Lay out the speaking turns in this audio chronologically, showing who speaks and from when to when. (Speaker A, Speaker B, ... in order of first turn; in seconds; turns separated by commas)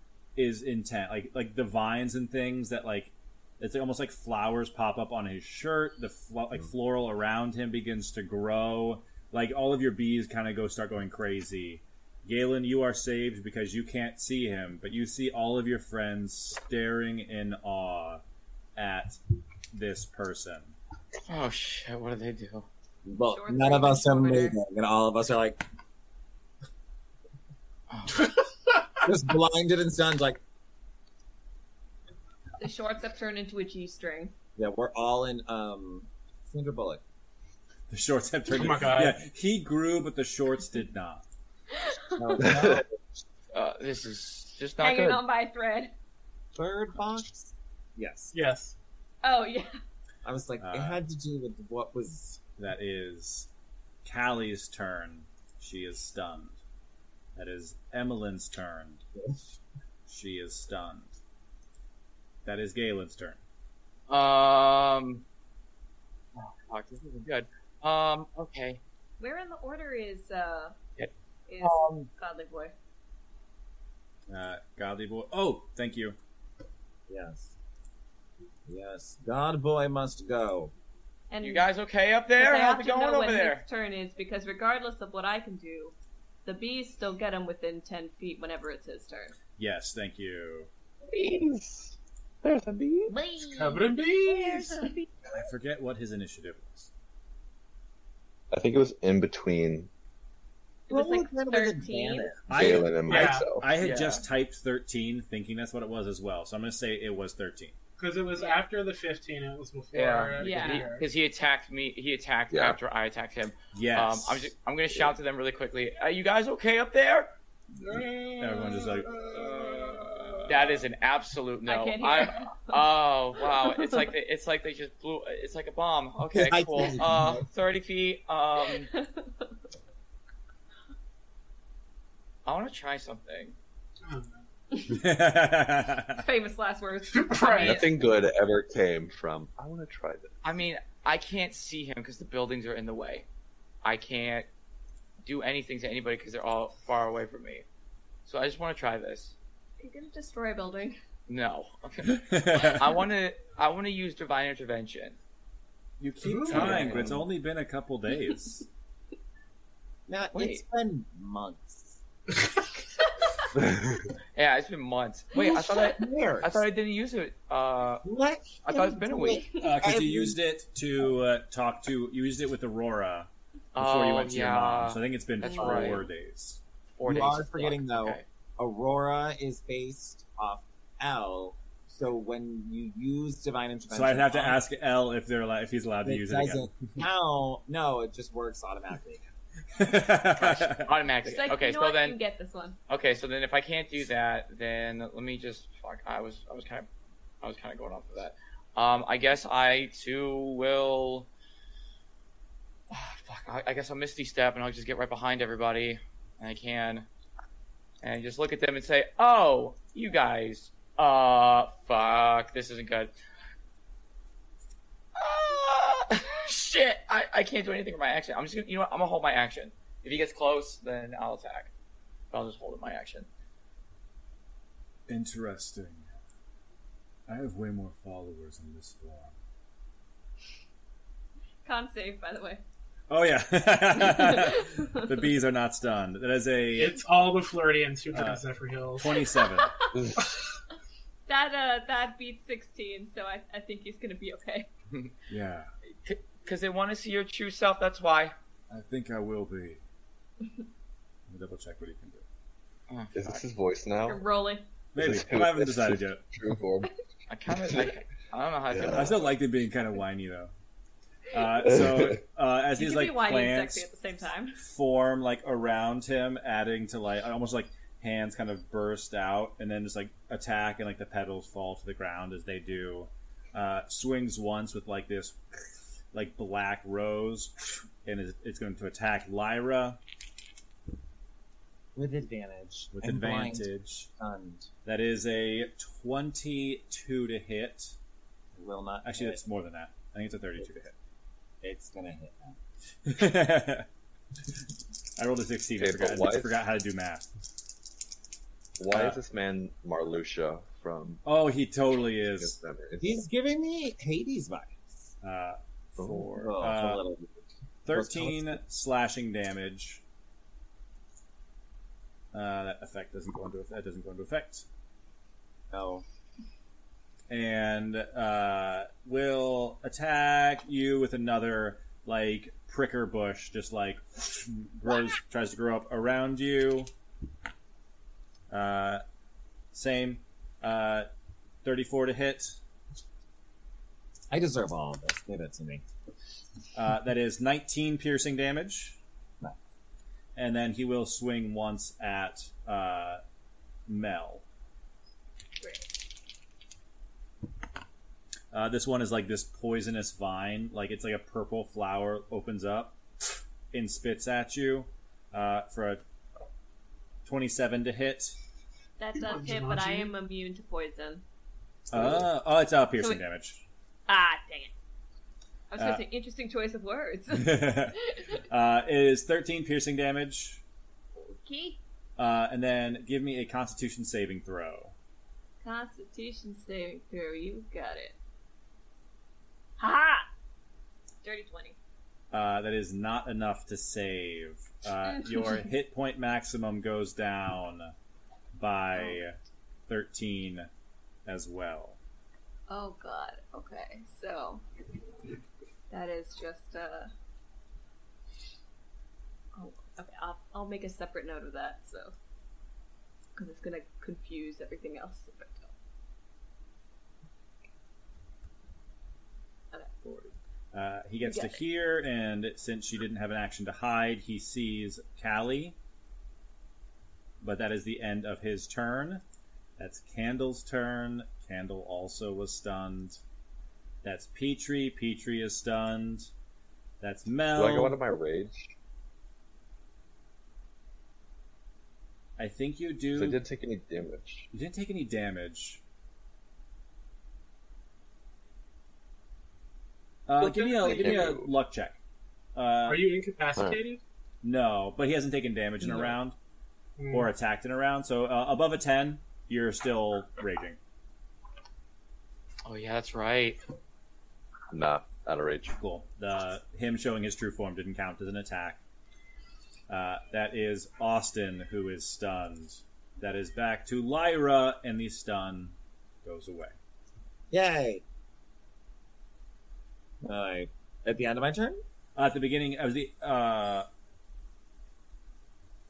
Speaker A: 0.4-18.2, Speaker A: 18.8-19.2, Speaker A: 19.7-20.8, Speaker B: 21.3-22.7, Speaker C: 23.1-25.6, Speaker D: 23.3-24.6, Speaker B: 27.9-28.3, Speaker C: 29.0-30.4, Speaker D: 32.6-34.3, Speaker C: 34.6-37.0, Speaker A: 37.9-41.2, Speaker E: 38.5-39.2, Speaker D: 41.7-42.6, Speaker C: 42.2-42.9, Speaker F: 42.4-42.8, Speaker B: 43.5-45.2, Speaker D: 44.8-45.9, Speaker C: 46.5-48.4, Speaker E: 48.3-48.8, Speaker D: 49.2-49.7, Speaker C: 50.2-52.4, Speaker A: 50.6-51.0, Speaker A: 52.6-53.5, Speaker A: 54.0-56.6, Speaker A: 57.4-59.0, Speaker C: 59.1-59.6, Speaker A: 60.1-61.2, Speaker A: 62.5-63.4, Speaker B: 64.1-65.2, Speaker B: 66.4-68.8, Speaker D: 69.2-70.8, Speaker D: 71.5-72.7, Speaker C: 71.7-72.1, Speaker A: 74.3-76.2, Speaker C: 77.1-77.5, Speaker C: 78.7-80.7, Speaker D: 81.3-81.7, Speaker B: 81.4-83.7, Speaker D: 82.4-85.9, Speaker D: 86.5-89.3, Speaker A: 89.6-90.7, Speaker F: 91.1-93.2, Speaker D: 93.2-93.6, Speaker E: 93.5-94.8, Speaker D: 94.5-95.0, Speaker A: 95.3-96.9, Speaker F: 98.5-99.9, Speaker D: 100.9-102.4, Speaker C: 100.9-102.4, Speaker A: 102.5-107.8, Speaker F: 102.5-103.7, Speaker E: 103.0-103.5, Speaker B: 103.8-104.2, Speaker E: 108.0-111.1, Speaker B: 109.9-117.3, Speaker D: 110.4-111.0, Speaker F: 112.5-112.8, Speaker A: 113.7-114.5, Speaker E: 117.9-120.2, Speaker A: 118.4-120.9, Speaker B: 120.5-128.9, Speaker D: 121.7-122.8, Speaker D: 123.5-124.1, Speaker C: 126.3-127.5, Speaker D: 128.7-129.5, Speaker B: 132.4-133.6, Speaker E: 134.0-134.5, Speaker D: 134.7-135.0, Speaker A: 134.9-136.2, Speaker D: 136.1-138.0, Speaker E: 137.1-137.8, Speaker F: 137.6-140.3, Speaker B: 140.4-143.3, Speaker B: 143.8-144.5, Speaker B: 145.2-147.7, Speaker B: 148.2-149.4, Speaker D: 149.8-151.0, Speaker B: 151.3-155.2, Speaker A: 152.1-152.8, Speaker A: 156.0-158.7, Speaker E: 156.2-156.9, Speaker B: 156.5-157.2, Speaker F: 156.5-157.0, Speaker C: 160.1-162.0, Speaker B: 160.3-160.6, Speaker F: 163.6-164.0, Speaker B: 164.3-168.0, Speaker C: 165.4-166.7, Speaker D: 165.5-165.9, Speaker C: 168.0-170.4, Speaker B: 168.6-169.5, Speaker A: 169.6-176.6, Speaker B: 173.8-176.1, Speaker D: 175.4-175.9, Speaker B: 177.0-178.2, Speaker C: 177.0-184.6, Speaker A: 183.9-186.7, Speaker C: 186.0-189.2, Speaker A: 189.8-190.9, Speaker B: 190.4-192.2, Speaker D: 191.2-192.8, Speaker B: 192.9-196.9, Speaker B: 197.4-201.3, Speaker B: 202.9-207.1, Speaker B: 208.0-213.1, Speaker B: 215.2-221.7, Speaker B: 222.3-223.3, Speaker A: 225.1-226.1, Speaker A: 227.3-229.3, Speaker D: 231.7-232.6, Speaker A: 233.1-237.0, Speaker D: 234.1-234.9, Speaker E: 236.7-239.2, Speaker A: 238.1-238.4, Speaker A: 239.0-239.7, Speaker D: 239.5-239.9, Speaker F: 239.9-240.3, Speaker D: 241.3-244.7, Speaker A: 245.3-245.7, Speaker B: 246.0-248.3, Speaker A: 248.7-249.8, Speaker A: 251.3-252.2, Speaker B: 252.9-253.4, Speaker F: 253.1-254.3, Speaker D: 254.1-254.7, Speaker A: 254.9-256.2, Speaker F: 255.0-256.9, Speaker B: 257.3-259.2, Speaker F: 257.7-257.9, Speaker F: 258.7-259.2, Speaker A: 258.9-260.5, Speaker A: 261.3-263.9, Speaker F: 261.6-262.2, Speaker D: 262.8-264.6, Speaker A: 264.6-280.0, Speaker C: 281.9-284.7, Speaker A: 282.9-284.1, Speaker A: 284.9-288.0, Speaker C: 288.6-289.4, Speaker A: 289.0-290.9, Speaker C: 291.6-292.6, Speaker A: 293.1-293.9, Speaker A: 295.2-297.3, Speaker F: 295.8-296.6, Speaker F: 298.8-301.2, Speaker A: 298.9-299.2, Speaker A: 301.2-302.6, Speaker F: 302.2-303.2, Speaker C: 303.0-304.8, Speaker A: 305.2-307.0, Speaker F: 306.0-306.3, Speaker C: 306.1-307.3, Speaker A: 307.9-310.0, Speaker C: 307.9-308.6, Speaker A: 312.3-314.7, Speaker C: 315.7-316.1, Speaker A: 317.3-326.9, Speaker A: 328.5-329.0, Speaker A: 329.7-331.1, Speaker A: 331.6-332.6, Speaker C: 334.3-335.8, Speaker A: 336.7-339.0, Speaker A: 340.4-343.2, Speaker A: 343.9-344.4, Speaker A: 348.5-353.0, Speaker A: 353.7-356.0, Speaker A: 357.3-358.4, Speaker D: 359.0-361.2, Speaker E: 359.2-360.1, Speaker A: 361.9-363.6, Speaker F: 361.9-362.2, Speaker D: 363.0-363.2, Speaker D: 364.1-364.7, Speaker D: 365.7-368.1, Speaker A: 365.8-366.1, Speaker A: 367.3-368.0, Speaker A: 368.5-370.6, Speaker D: 371.4-371.8, Speaker A: 372.2-374.9, Speaker D: 375.6-378.2, Speaker D: 379.8-380.3, Speaker D: 381.2-381.8, Speaker A: 382.3-387.9, Speaker D: 385.1-385.6, Speaker A: 388.6-389.4, Speaker D: 388.9-389.2, Speaker A: 389.9-390.7, Speaker A: 391.3-392.0, Speaker D: 392.7-394.6, Speaker D: 395.9-397.1, Speaker D: 399.6-402.1, Speaker D: 403.4-405.7, Speaker A: 410.0-415.8, Speaker D: 411.2-411.6, Speaker A: 417.4-419.2, Speaker A: 419.8-423.2, Speaker A: 424.0-426.3, Speaker A: 427.0-428.0, Speaker F: 427.5-428.7, Speaker A: 432.4-433.4, Speaker F: 433.1-434.5, Speaker A: 434.5-435.8, Speaker A: 440.3-442.0, Speaker E: 440.4-441.3, Speaker F: 440.8-441.5, Speaker A: 442.6-443.1, Speaker E: 442.9-444.0, Speaker F: 443.6-443.8, Speaker A: 444.4-446.4, Speaker F: 445.8-446.1, Speaker E: 447.0-447.3, Speaker A: 447.1-450.8, Speaker B: 452.6-453.6, Speaker F: 454.7-455.8, Speaker A: 455.8-458.8, Speaker A: 459.9-466.8, Speaker C: 467.5-468.0, Speaker C: 470.2-471.8, Speaker A: 472.2-473.9